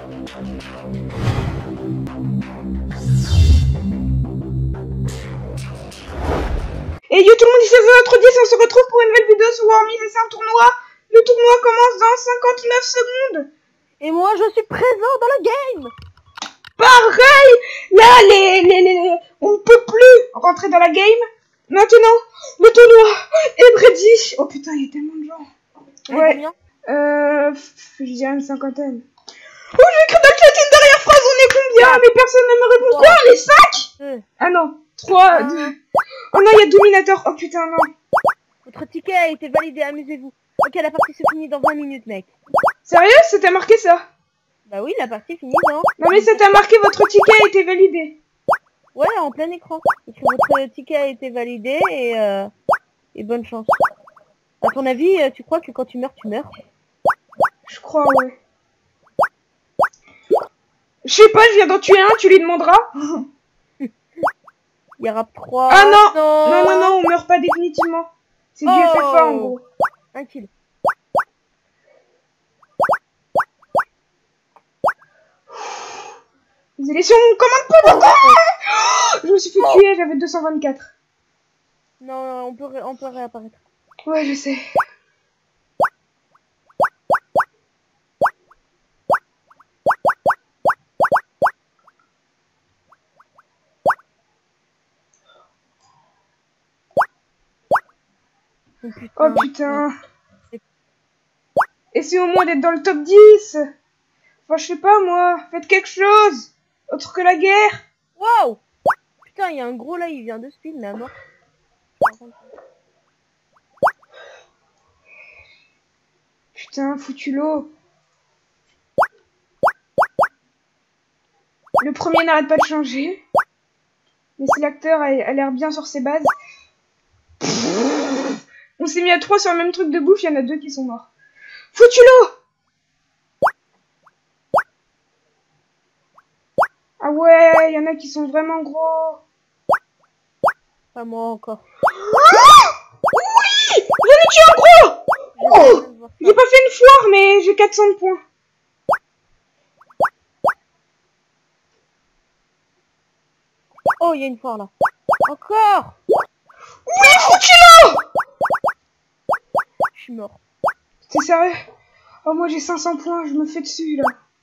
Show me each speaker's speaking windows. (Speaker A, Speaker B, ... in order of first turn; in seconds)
Speaker A: 7.1-13.5, 16.8-25.4, 26.1-29.1, 29.7-33.9, 34.4-35.7, 36.3-37.9, 42.8-44.1, 46.0-48.2, 57.6-58.4, 61.0-63.2, 65.7-69.6, 76.8-80.9, 84.1-84.6, 99.2-99.9, 101.9-103.6, 104.5-107.8, 116.5-117.7, 121.8-123.2, 124.4-126.3, 128.8-131.1, 131.7-132.3, 137.0-139.2, 142.2-142.7, 143.2-148.2, 156.9-158.0, 161.1-161.5, 162.2-164.1
Speaker B: 14.0-15.9, 26.1-26.5, 31.8-32.0, 32.8-33.2, 34.0-34.2, 35.3-35.7, 38.6-42.3, 44.7-46.4, 48.9-52.5, 53.1-53.8, 54.6-56.5, 65.0-66.9, 68.6-69.5, 70.1-70.5, 77.8-78.4, 82.0-83.6, 98.8-99.8, 108.2-108.6, 109.2-111.1, 112.0-112.5, 140.9-141.6, 145.4-146.4, 154.0-154.7, 155.3-155.9, 159.9-160.4